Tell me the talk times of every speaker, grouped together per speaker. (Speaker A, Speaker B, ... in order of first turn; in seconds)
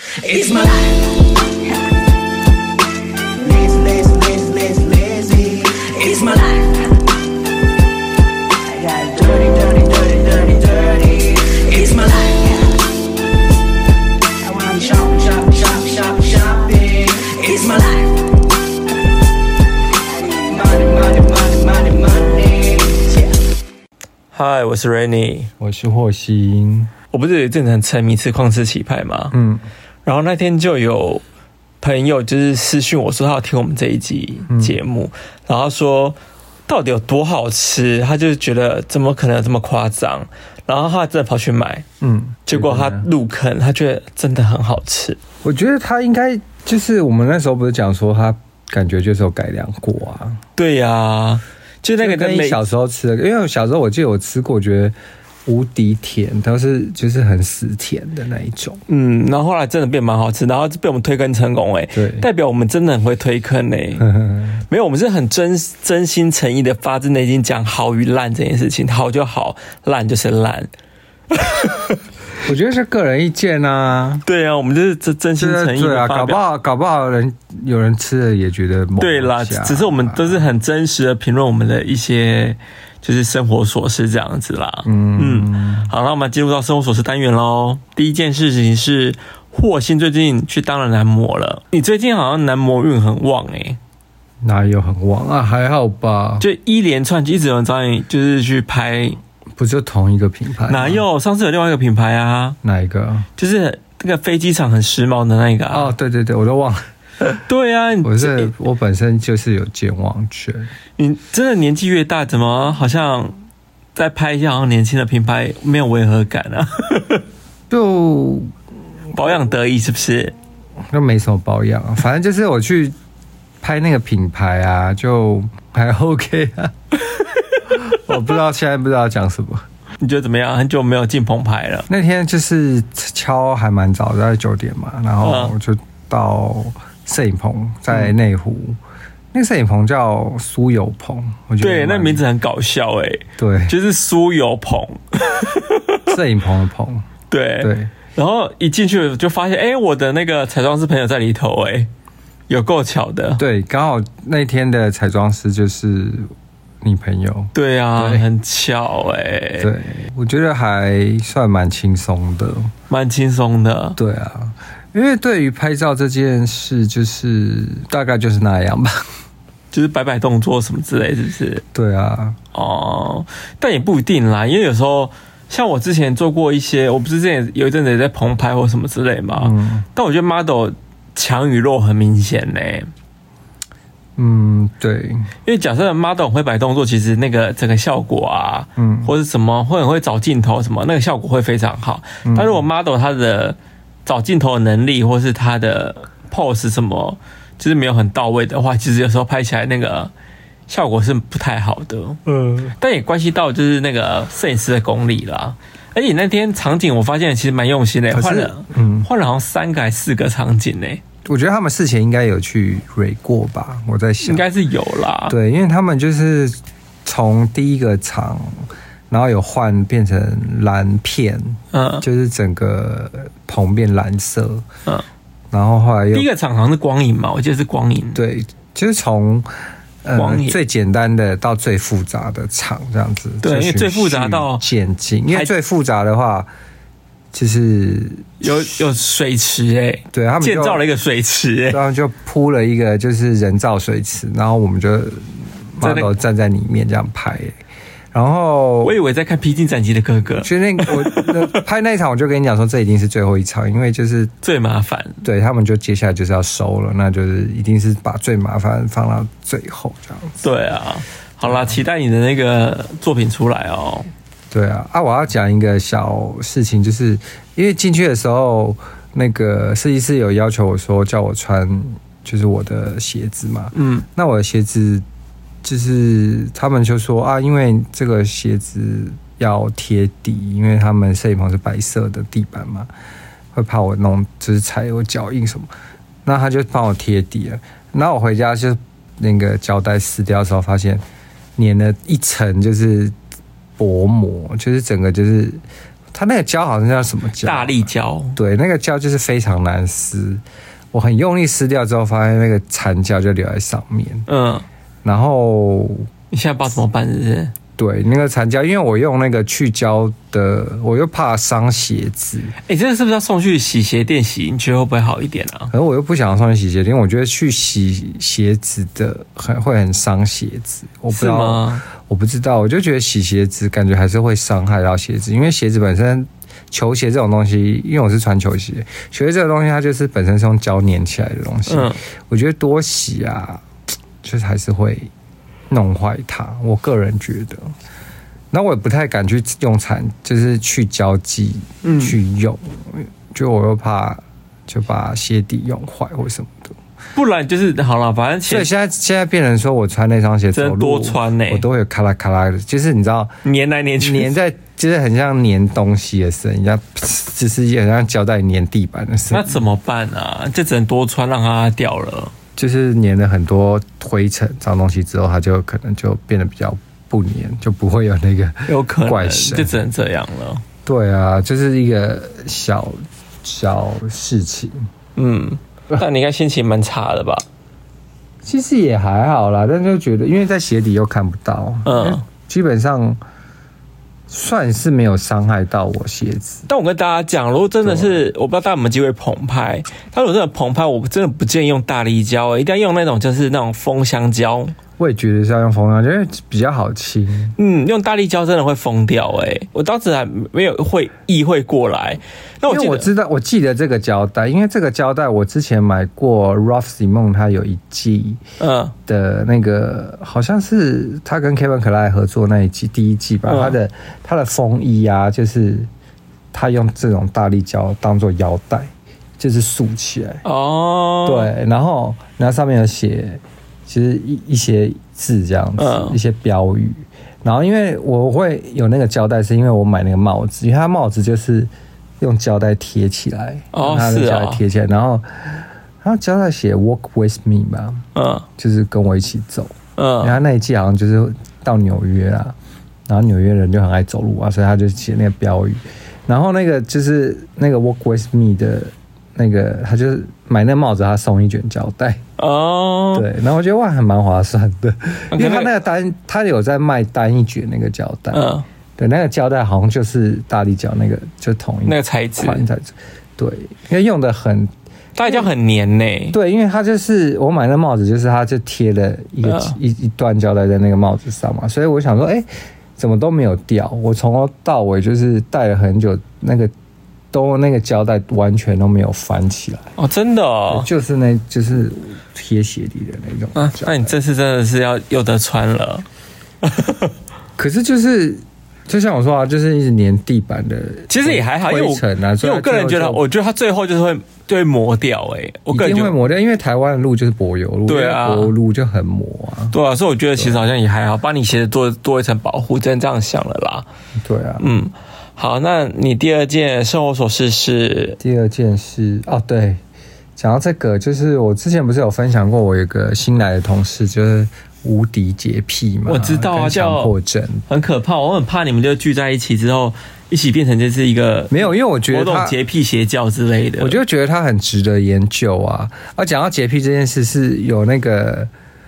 Speaker A: 0.2-1.2, 3.4-7.0, 8.7-12.8, 14.4-18.2, 20.1-23.4
Speaker B: 24.3-25.5, 27.1-29.3, 30.0-31.2, 31.8-41.8, 42.5-45.2, 50.6-52.6, 58.9-64.0, 64.7-70.7, 71.3-72.0, 74.2-76.4, 79.0-93.8, 96.4-99.2, 100.7-102.6, 103.4-105.9, 107.2-108.5, 111.0-113.3, 113.9-117.2, 119.1-120.3, 130.0-131.9, 135.2-135.5, 141.6-146.1, 147.3-151.9, 152.5-153.4, 157.5-159.7, 162.9-164.0, 169.7-171.6, 172.5-182.9, 185.4-200.1, 200.7-211.0, 214.2-215.3, 221.7-222.0, 226.1-228.2, 230.2-230.6, 233.4-234.6, 238.4-241.8, 245.8-246.2, 248.8-251.6, 254.4-255.2, 260.4-264.1, 273.7-274.0, 297.4-298.4, 304.3-304.6, 306.3-307.5, 312.6-315.7, 321.1-321.8, 331.7-332.0, 341.8-342.2, 347.1-348.7, 350.5-351.6, 353.4-354.3, 359.3-362.3, 368.7-370.6, 375.1-377.4, 381.8-382.2, 386.7-394.7, 397.6-403.1, 408.6-408.9, 413.5-413.8, 420.4-421.5, 425.8-426.2, 433.7-434.6, 438.1-438.4, 439.9-440.4, 452.4-453.3, 455.3-455.7, 458.3-458.6, 461.8-462.6, 465.1-466.4, 469.4-469.8, 479.9-480.9, 483.5-486.1, 486.6-487.1, 491.1-496.1, 497.9-498.5, 499.7-503.9, 504.6-508.2, 516.1-517.1, 517.7-524.0
Speaker C: 25.6-26.9, 29.3-29.6, 34.5-34.8, 42.0-43.1, 45.4-50.4, 52.0-54.9, 55.5-58.8, 61.9-62.2, 64.0-64.6, 72.4-74.2, 75.4-80.5, 84.8-85.9, 94.4-96.5, 99.6-101.0, 102.6-103.3, 105.7-106.8, 108.0-110.7, 117.7-118.5, 120.9-122.9, 123.6-126.8, 127.7-129.6, 131.9-138.8, 139.3-142.2, 143.4-143.7, 146.1-147.0, 147.6-147.9, 153.4-156.3, 156.8-158.2, 159.6-162.7, 164.0-169.0, 171.7-172.4, 179.3-179.8, 184.2-185.3, 188.8-189.1, 192.2-192.7, 202.3-202.6, 208.1-209.1, 211.2-214.5, 215.3-224.7, 225.5-226.3, 228.1-229.5, 230.0-236.5, 237.3-238.6, 240.1-240.8, 241.7-247.6, 248.1-248.9, 250.4-254.3, 255.2-260.4, 261.4-261.8, 264.5-275.0, 275.6-282.9, 283.5-285.7, 286.2-291.0, 291.6-293.1, 293.8-295.6, 296.1-300.4, 300.9-304.2, 305.0-306.1, 307.8-312.5, 315.7-333.6, 334.2-335.1, 335.7-337.7, 338.5-346.7, 348.5-353.4, 354.0-359.6, 362.6-369.8, 370.8-374.9, 378.4-383.2, 384.3-386.6, 387.8-388.2, 395.0-397.5, 402.7-408.4, 409.1-415.9, 416.5-420.4, 421.2-438.0, 438.6-442.5, 443.1-452.2, 453.1-464.7, 466.3-476.7, 477.3-479.9, 480.7-484.1, 487.6-493.2, 495.7-499.8, 500.4-500.6, 504.2-504.6, 508.2-509.8, 510.4-517.6, 521.5-522.5, 523.8-528.5